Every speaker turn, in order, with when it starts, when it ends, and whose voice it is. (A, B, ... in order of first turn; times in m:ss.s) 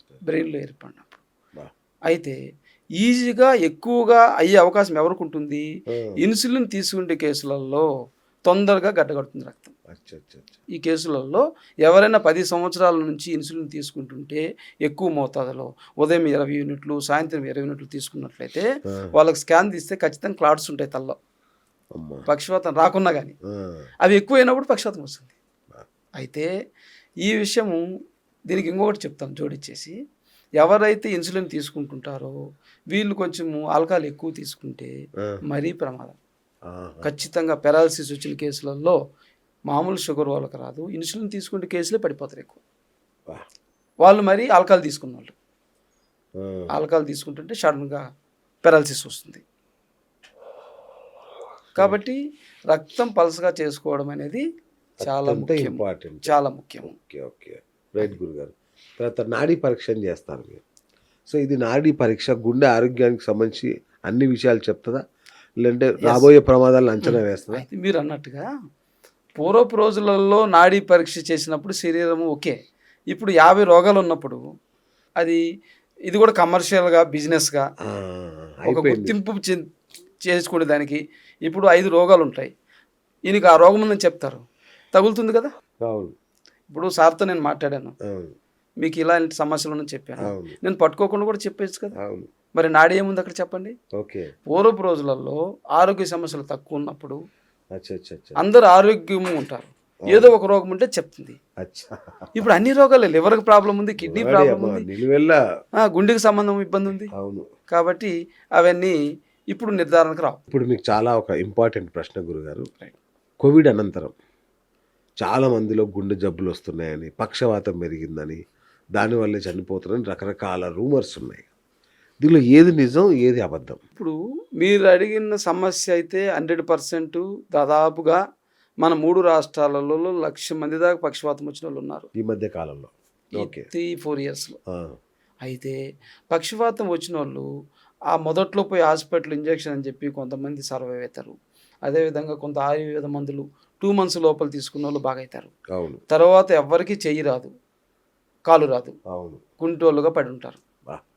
0:00.2-0:01.2 A
0:02.1-0:02.4 A
0:03.0-0:05.6 A
0:06.2-0:07.9 A
0:08.5-0:09.7 A
0:09.9-0:10.6 B
0:10.7-0:21.2 A
0:22.0-0:22.2 B
0:22.3-0:23.3 A
0:23.5-0:23.9 B
0:24.0-0:25.3 A
0:26.2-0:26.5 A
0:27.2-0:27.8 A
0:28.5-0:30.0 A
0:30.6-0:32.3 A
0:32.9-0:34.9 A
0:35.5-0:36.2 A
0:36.7-0:37.1 B
0:37.0-0:39.0 A
0:39.7-0:42.6 A
0:44.0-0:45.3 A
0:46.4-0:46.7 B
0:46.7-0:48.0 A
0:48.6-0:49.4 A
0:51.8-0:52.2 A
0:52.7-0:54.4 A
0:55.0-0:56.9 A
0:55.0-0:56.3 B
0:56.8-1:00.6 B
1:01.3-1:05.0 B
1:05.6-1:07.6 B
1:06.0-1:06.3 A
1:07.0-1:08.5 A
1:09.4-1:12.6 A
1:13.1-1:14.4 A
1:16.1-1:17.7 A
1:17.8-1:19.1 B
1:18.7-1:19.7 A
1:20.2-1:22.5 A
1:23.3-1:25.5 A
1:25.9-1:26.1 B
1:26.7-1:27.9 A
1:28.1-1:28.3 B
1:28.8-1:32.0 A
1:30.2-1:30.6 B
1:32.0-1:32.3 B
1:32.6-1:33.8 A
1:34.0-1:34.3 B
1:34.5-1:37.2 A
1:37.7-1:38.4 B
1:38.4-1:41.4 A
1:41.6-1:42.4 B
1:42.4-1:44.9 A
1:44.0-1:45.4 B
1:45.8-1:47.1 A
1:47.1-1:47.4 B
1:47.7-1:49.0 A
1:49.5-1:50.4 A
1:50.5-1:52.7 B
1:53.4-1:54.1 B
1:55.2-1:58.4 B
1:59.0-2:01.5 B
2:02.2-2:03.8 B
2:04.0-2:08.2 A
2:08.8-2:12.1 A
2:12.2-2:13.7 B
2:13.4-2:14.6 A
2:14.7-2:15.0 B
2:15.4-2:15.8 A
2:16.3-2:17.5 A
2:18.1-2:21.4 A
2:21.9-2:25.5 A
2:25.8-2:26.0 B
2:26.1-2:27.5 A
2:28.5-2:29.0 A
2:29.1-2:29.4 B
2:29.6-2:30.6 A